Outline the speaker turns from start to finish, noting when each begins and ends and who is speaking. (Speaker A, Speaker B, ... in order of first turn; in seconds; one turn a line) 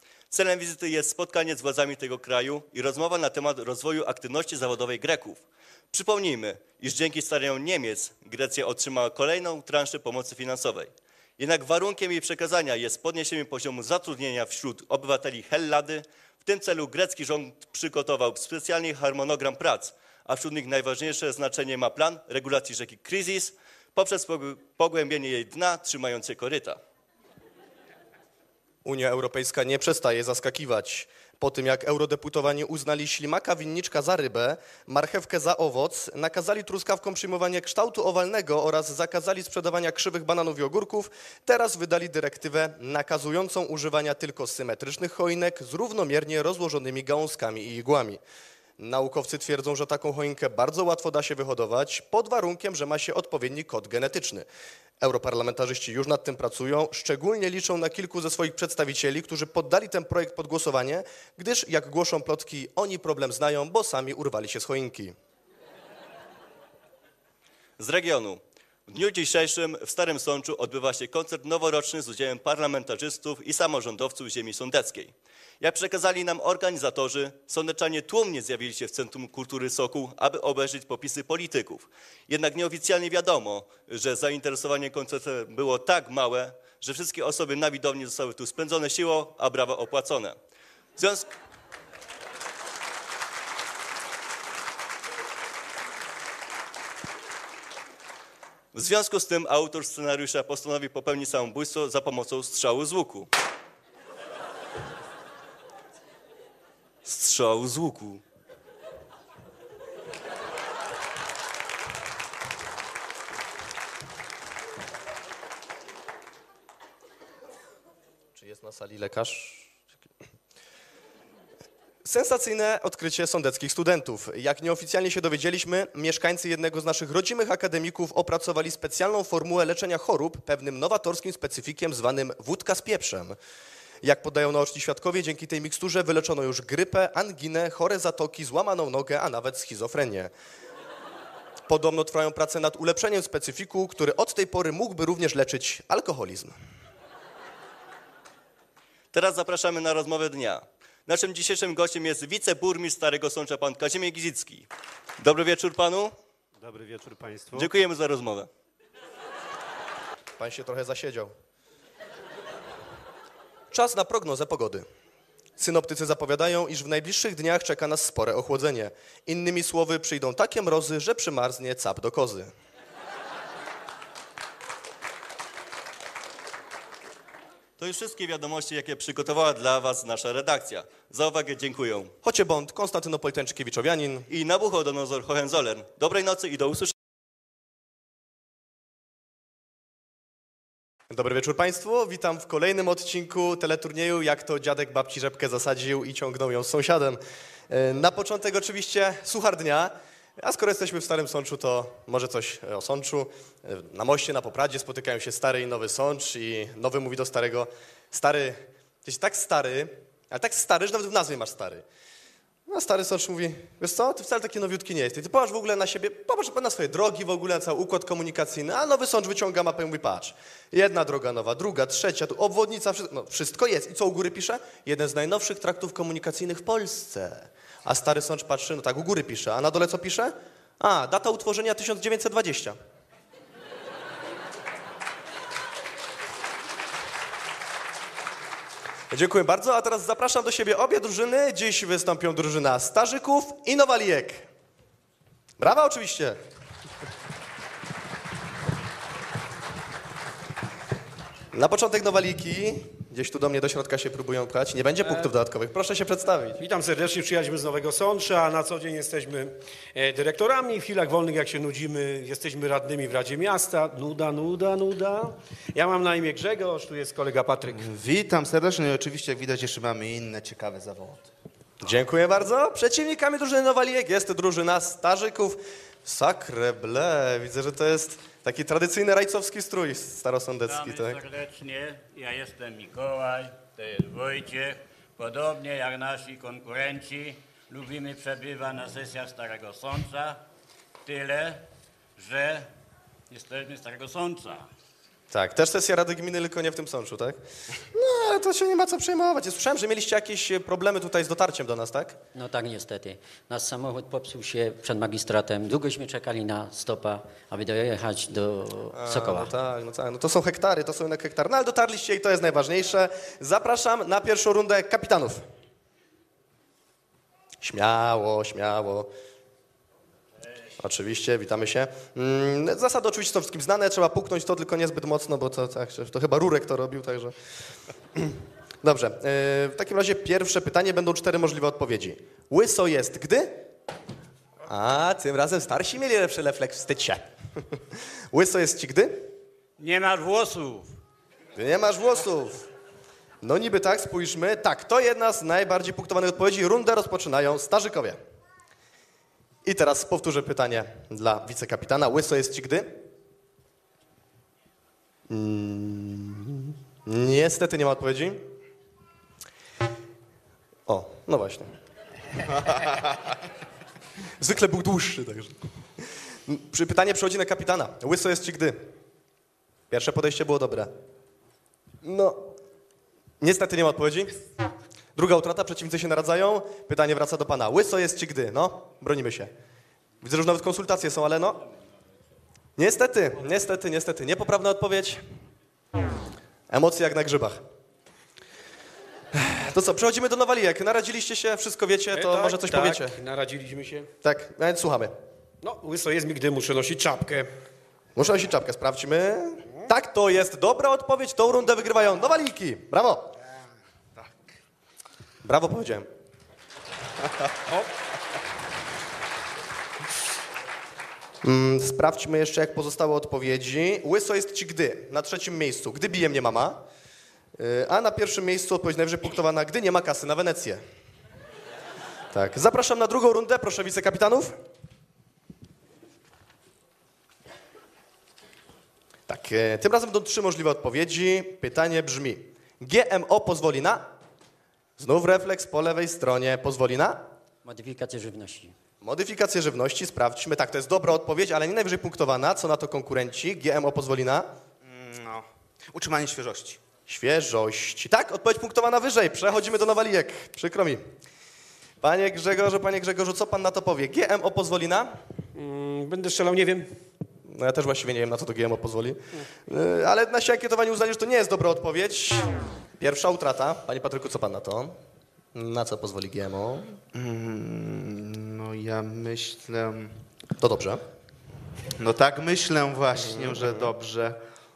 Speaker A: 0.3-26.8
Speaker B: 28.8-48.2
Speaker B: 48.8-54.5
Speaker B: 55.0-65.1
Speaker A: 67.8-90.3
Speaker A: 91.0-91.3
Speaker A: 98.7-103.3
Speaker A: 107.0-108.2
Speaker B: 118.3-119.7
Speaker B: 122.0-133.4
Speaker B: 134.0-140.3
Speaker B: 141.7-146.5
Speaker A: 149.1-154.7
Speaker A: 155.2-156.1
Speaker A: 157.5-158.5
Speaker B: 160.4-161.3
Speaker B: 163.7-164.8
Speaker B: 165.6-172.5
Speaker A: 177.8-182.1
Speaker B: 182.2-184.3
Speaker A: 184.3-186.9
Speaker B: 191.1-211.8
Speaker B: 212.7-232.7
Speaker B: 239.1-244.5
Speaker B: 245.6-246.4
Speaker B: 251.5-256.6
Speaker C: 256.6-267.9
Speaker D: 267.7-271.2
Speaker B: 271.8-281.2
Speaker E: 280.6-290.4
Speaker E: 291.0-291.6
Speaker E: 292.2-292.7
Speaker E: 293.3-294.7
Speaker B: 295.3-297.4
Speaker B: 297.9-302.2
Speaker F: 302.3-309.5
Speaker B: 308.9-315.4
Speaker B: 317.6-319.1
Speaker B: 320.8-327.3
Speaker B: 328.8-333.6
Speaker B: 334.7-337.2
Speaker B: 338.3-339.2
Speaker E: 339.8-340.9
Speaker B: 341.6-342.6
Speaker B: 343.4-348.2
Speaker B: 349.6-352.9
Speaker B: 355.3-358.4
Speaker B: 360.9-361.7
Speaker B: 364.4-365.5
Speaker B: 366.5-368.8
Speaker B: 369.9-370.9
Speaker B: 372.0-372.4
Speaker B: 373.4-374.3
Speaker B: 375.1-379.5
Speaker B: 380.2-381.6
Speaker B: 382.8-385.2
Speaker B: 386.7-387.6
Speaker B: 389.3-393.2
Speaker C: 392.1-394.1
Speaker B: 394.2-395.1
Speaker C: 395.6-397.5
Speaker B: 398.1-403.3
Speaker B: 405.4-406.1
Speaker B: 411.4-416.8
Speaker B: 417.6-420.8
Speaker B: 422.3-424.5
Speaker B: 429.3-434.1
Speaker B: 435.0-437.2
Speaker F: 437.6-438.7
Speaker B: 439.0-444.5
Speaker D: 444.8-446.8
Speaker B: 447.1-451.0
Speaker B: 452.0-455.1
Speaker C: 455.5-456.9
Speaker B: 457.5-464.9
Speaker B: 465.5-467.0
Speaker D: 467.1-470.1
Speaker B: 470.6-471.0
Speaker D: 472.0-474.4